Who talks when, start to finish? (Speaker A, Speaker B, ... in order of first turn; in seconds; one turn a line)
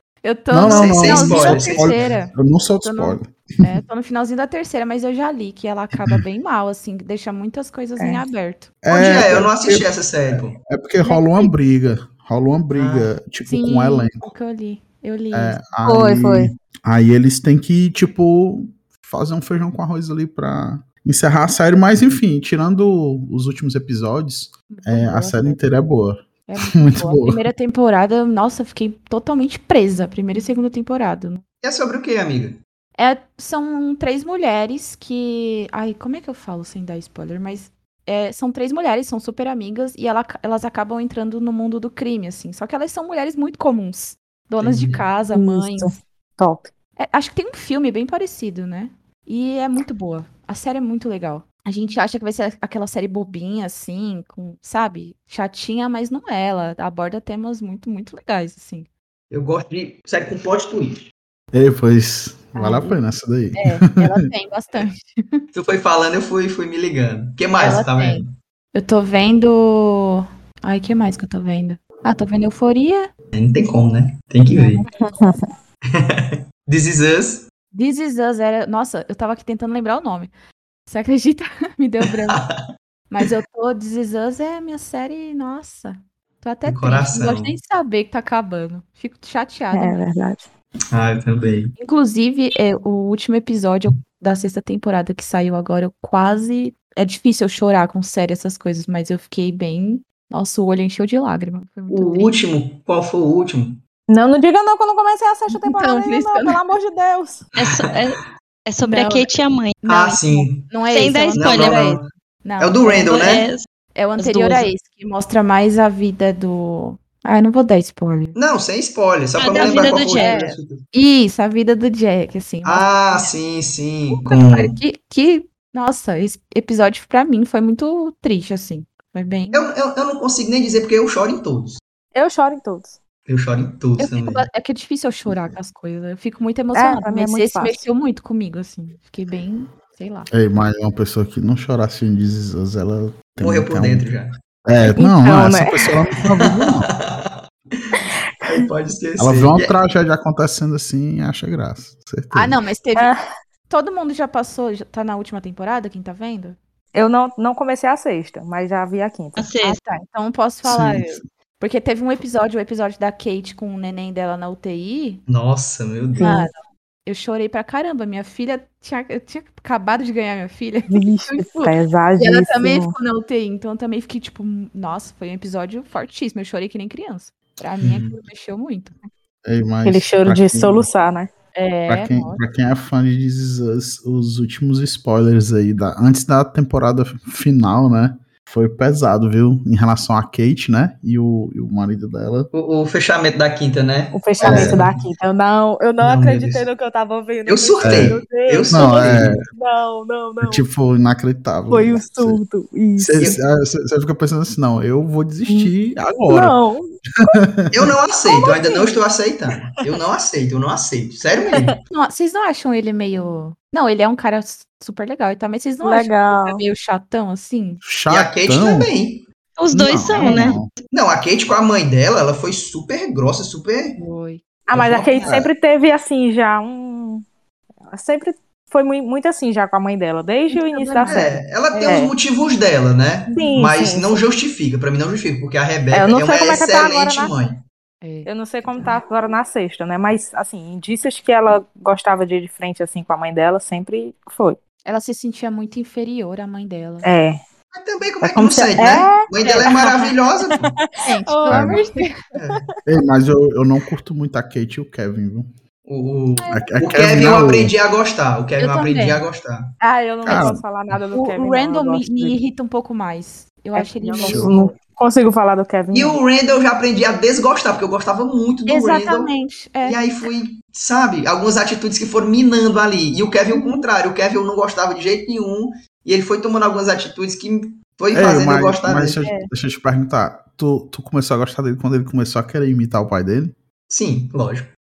Speaker A: 0.2-8.7
Speaker B: 0.5-3.3
Speaker C: 0.7-2.1
Speaker D: 8.0-8.2
Speaker B: 8.8-14.3
Speaker C: 8.9-10.6
Speaker A: 11.0-11.5
Speaker C: 12.7-13.1
Speaker A: 13.5-15.6
Speaker B: 15.3-26.2
Speaker D: 15.8-16.5
Speaker A: 24.7-25.6
Speaker A: 26.5-31.4
Speaker B: 26.7-27.4
Speaker C: 31.6-32.6
Speaker A: 33.0-46.0
Speaker C: 44.6-45.1
Speaker D: 45.3-46.7
Speaker A: 47.0-58.9
Speaker C: 59.3-61.1
Speaker B: 61.5-63.7
Speaker A: 62.5-63.0
Speaker A: 63.6-65.4
Speaker C: 65.5-68.3
Speaker A: 67.6-73.1
Speaker C: 73.3-74.8
Speaker A: 74.5-74.9
Speaker D: 75.0-75.5
Speaker C: 75.9-77.4
Speaker A: 77.7-80.3
Speaker A: 80.9-82.4
Speaker A: 83.1-90.0
Speaker C: 86.7-87.6
Speaker D: 89.7-90.5
Speaker C: 90.9-91.7
Speaker A: 91.8-102.4
Speaker C: 101.9-103.8
Speaker D: 104.1-107.5
Speaker A: 105.5-106.6
Speaker E: 107.6-109.8
Speaker A: 108.8-113.2
Speaker C: 109.9-110.7
Speaker E: 110.9-112.0
Speaker C: 111.3-112.1
Speaker C: 112.6-113.5
Speaker E: 113.1-113.7
Speaker A: 114.0-118.4
Speaker E: 114.2-114.7
Speaker C: 118.3-120.8
Speaker E: 119.4-120.4
Speaker A: 119.5-120.4
Speaker D: 119.5-120.6
Speaker A: 120.9-123.3
Speaker C: 122.6-124.8
Speaker A: 124.1-129.7
Speaker C: 129.5-131.8
Speaker D: 132.2-133.0
Speaker C: 133.3-134.5
Speaker A: 134.0-140.3
Speaker D: 136.7-137.8
Speaker B: 140.3-144.1
Speaker C: 143.4-144.3
Speaker B: 144.7-146.9
Speaker D: 145.0-145.8
Speaker C: 146.4-149.8
Speaker B: 149.2-152.6
Speaker A: 152.3-153.1
Speaker A: 153.7-156.6
Speaker D: 156.9-159.5
Speaker E: 159.4-159.8
Speaker A: 159.6-165.2
Speaker B: 160.6-161.2
Speaker C: 165.3-166.4
Speaker D: 166.2-166.5
Speaker A: 166.2-178.9
Speaker D: 170.9-172.9
Speaker C: 177.8-178.2
Speaker B: 179.4-180.9
Speaker D: 179.8-181.3
Speaker A: 181.6-182.4
Speaker B: 181.9-192.5
Speaker C: 192.5-195.1
Speaker D: 194.1-200.6
Speaker B: 194.4-194.8
Speaker C: 196.0-196.7
Speaker C: 197.5-199.4
Speaker B: 197.8-198.2
Speaker B: 198.7-199.4
Speaker B: 200.4-202.4
Speaker D: 201.7-203.3
Speaker B: 203.0-206.6
Speaker D: 205.5-205.7
Speaker D: 206.3-207.3
Speaker B: 207.5-207.9
Speaker C: 207.7-211.8
Speaker D: 208.2-209.0
Speaker A: 211.9-217.8
Speaker D: 215.8-216.6
Speaker B: 217.8-218.9
Speaker C: 218.1-219.3
Speaker E: 219.6-220.8
Speaker B: 219.7-220.7
Speaker C: 220.9-224.0
Speaker A: 224.0-224.4
Speaker D: 224.7-227.2
Speaker C: 224.7-225.5
Speaker D: 227.9-231.3
Speaker A: 230.5-232.0
Speaker C: 231.1-237.6
Speaker D: 231.9-232.1
Speaker D: 233.3-234.2
Speaker D: 235.9-237.3
Speaker A: 238.0-239.0
Speaker D: 238.3-244.6
Speaker A: 244.9-247.1
Speaker D: 247.0-247.4
Speaker C: 247.7-250.8
Speaker D: 248.2-250.1
Speaker D: 250.7-251.9
Speaker A: 251.0-252.1
Speaker B: 251.5-251.8
Speaker C: 252.4-252.7
Speaker B: 252.9-255.5
Speaker C: 255.9-259.7
Speaker B: 256.5-257.7
Speaker A: 258.6-259.2
Speaker D: 259.8-262.4
Speaker B: 260.2-261.0
Speaker A: 261.1-264.7
Speaker D: 263.8-266.2
Speaker B: 264.2-264.6
Speaker C: 265.9-269.3
Speaker A: 268.7-270.0
Speaker C: 269.8-279.2
Speaker B: 278.1-283.6
Speaker D: 279.2-279.5
Speaker C: 283.9-284.7